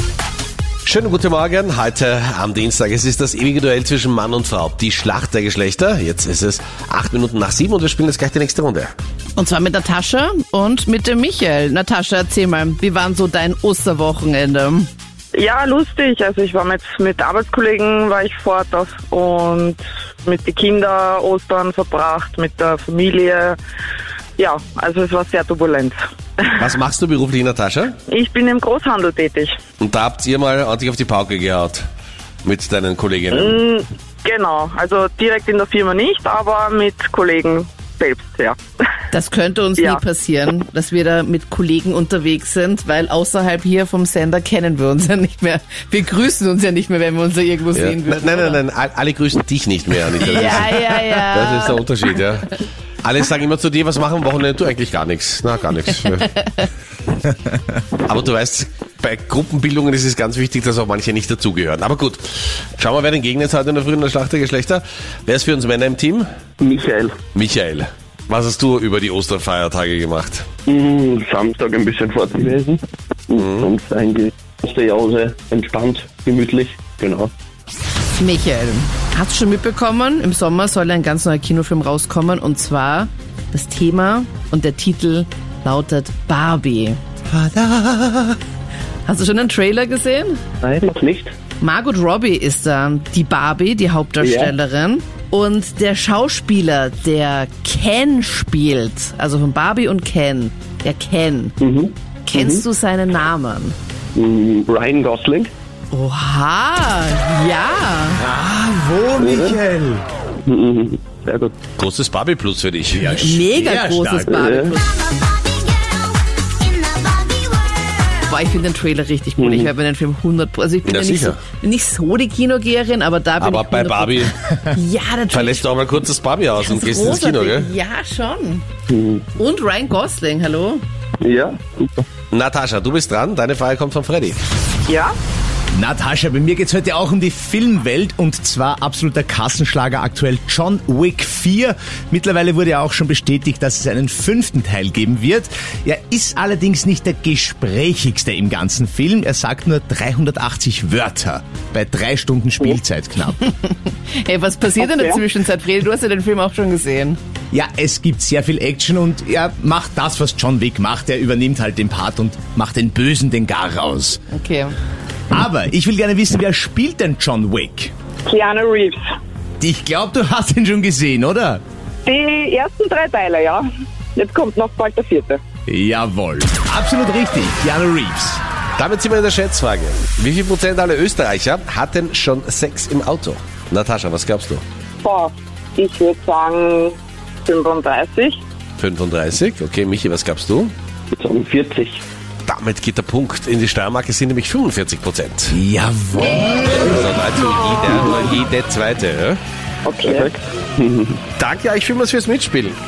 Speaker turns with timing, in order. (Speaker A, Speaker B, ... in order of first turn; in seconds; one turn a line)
Speaker A: 0.8-8.9
Speaker B: 9.3-14.9
Speaker C: 15.3-23.6
Speaker C: 24.4-26.0
Speaker A: 26.6-27.9
Speaker C: 28.1-29.5
Speaker A: 29.8-31.8
Speaker A: 32.4-33.6
Speaker C: 33.3-38.6
Speaker B: 39.1-48.6
Speaker A: 47.7-56.4
Speaker B: 50.2-52.1
Speaker A: 58.0-62.2
Speaker A: 62.8-66.3
Speaker D: 66.6-67.2
Speaker A: 67.3-70.5
Speaker D: 70.7-77.3
Speaker A: 73.3-73.7
Speaker B: 78.2-87.0
Speaker E: 87.3-88.3
Speaker B: 89.0-90.4
Speaker D: 90.6-91.3
Speaker B: 91.6-101.6
Speaker D: 94.2-94.5
Speaker D: 101.6-102.6
Speaker B: 102.2-103.8
Speaker D: 104.1-105.5
Speaker B: 105.9-108.2
Speaker E: 108.2-110.0
Speaker D: 109.2-109.6
Speaker D: 110.5-111.6
Speaker A: 111.8-113.2
Speaker E: 113.0-114.5
Speaker B: 113.0-115.1
Speaker D: 114.3-114.8
Speaker B: 118.3-125.6
Speaker D: 119.4-119.7
Speaker A: 120.8-121.4
Speaker A: 123.4-124.3
Speaker A: 125.3-127.7
Speaker B: 126.6-128.7
Speaker D: 128.9-129.2
Speaker B: 129.3-130.8
Speaker D: 131.2-132.1
Speaker A: 132.3-134.4
Speaker C: 134.9-135.1
Speaker E: 135.7-153.4
Speaker B: 153.4-157.2
Speaker C: 154.8-155.1
Speaker E: 157.5-164.2
Speaker B: 164.3-164.7
Speaker E: 165.3-167.9
Speaker C: 168.3-169.0
Speaker E: 169.6-171.6
Speaker C: 172.1-173.6
Speaker C: 174.2-175.4
Speaker E: 175.7-178.4
Speaker A: 178.8-184.6
Speaker C: 185.0-188.4
Speaker A: 188.8-190.7
Speaker D: 191.1-192.0
Speaker A: 192.5-195.6
Speaker E: 195.5-196.9
Speaker A: 196.7-199.4
Speaker C: 199.8-200.3
Speaker D: 200.1-201.2
Speaker A: 201.4-202.8